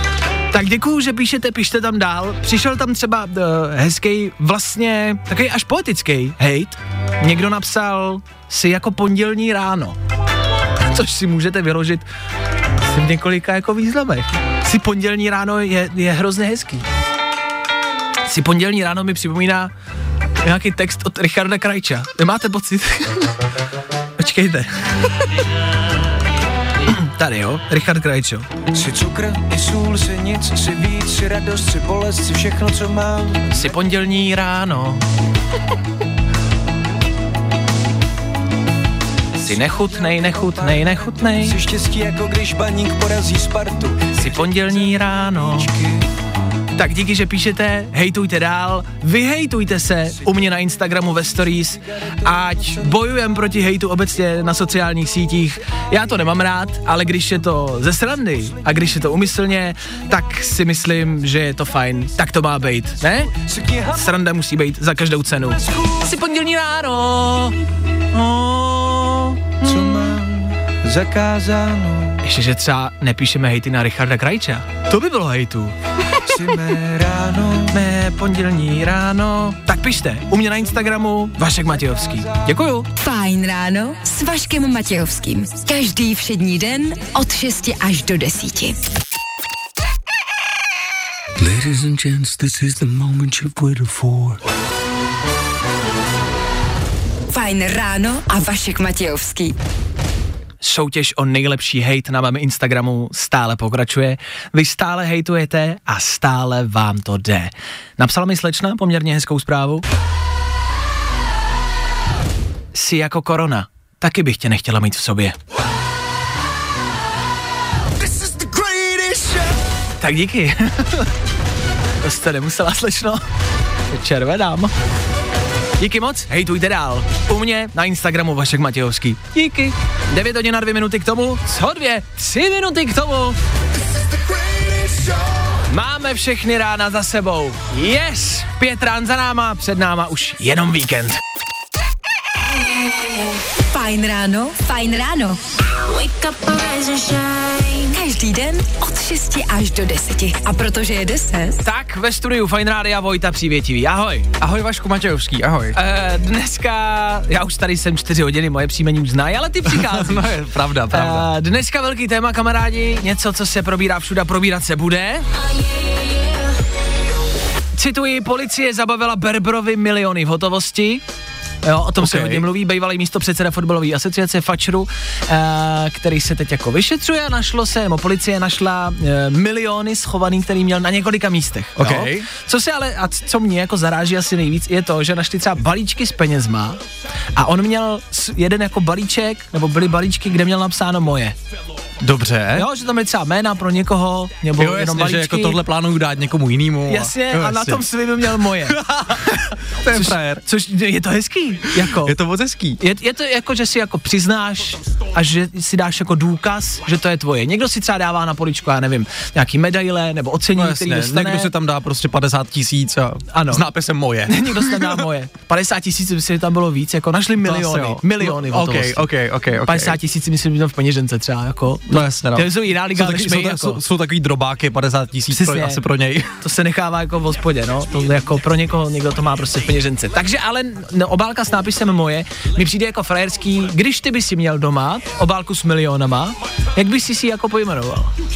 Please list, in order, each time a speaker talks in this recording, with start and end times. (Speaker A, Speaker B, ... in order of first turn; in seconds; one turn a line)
Speaker A: 0.5-9.9
Speaker A: 10.8-12.0
Speaker A: 12.8-16.9
Speaker A: 18.3-19.7
Speaker A: 20.4-23.3
Speaker A: 24.2-25.3
Speaker A: 26.8-28.4
Speaker B: 28.7-33.7
Speaker A: 33.5-35.0
Speaker B: 39.4-46.1
Speaker A: 39.4-41.6
Speaker A: 44.1-45.7
Speaker A: 46.8-63.3
Speaker B: 52.2-52.8
Speaker B: 63.3-64.2
Speaker A: 63.9-67.6
Speaker B: 65.4-66.0
Speaker A: 68.1-70.2
Speaker B: 69.6-72.2
Speaker A: 72.2-75.7
Speaker B: 76.2-77.7
Speaker A: 77.7-82.9
Speaker C: 83.0-88.8
Speaker D: 91.4-94.4
Speaker C: 97.3-99.5
Speaker A: 100.6-109.8
Speaker A: 112.7-115.3
Speaker B: 118.0-119.5
Speaker A: 120.0-121.1
Speaker A: 122.0-123.2
Speaker A: 123.9-124.7
Speaker A: 125.8-133.4
Speaker B: 134.2-135.2
Speaker A: 135.7-141.2
Speaker C: 143.7-145.4
Speaker E: 145.7-147.9
Speaker C: 147.9-151.6
Speaker A: 151.6-154.3
Speaker F: 154.4-155.8
Speaker A: 155.7-165.3
Speaker F: 159.7-161.3
Speaker E: 165.4-166.5
Speaker A: 167.7-171.0
Speaker A: 171.6-186.8
Speaker F: 172.0-172.4
Speaker F: 181.8-182.3
Speaker A: 187.3-191.3
Speaker F: 192.0-192.7
Speaker A: 192.5-195.6
Speaker F: 194.6-200.4
Speaker A: 196.8-198.8
Speaker A: 199.9-202.2
Speaker F: 202.0-202.8
Speaker A: 202.8-211.5
Speaker F: 210.5-215.1
Speaker A: 213.3-213.7
Speaker A: 214.2-219.1
Speaker F: 217.4-220.0
Speaker A: 219.6-223.8
Speaker F: 221.9-226.3
Speaker A: 225.3-225.8
Speaker A: 226.4-238.1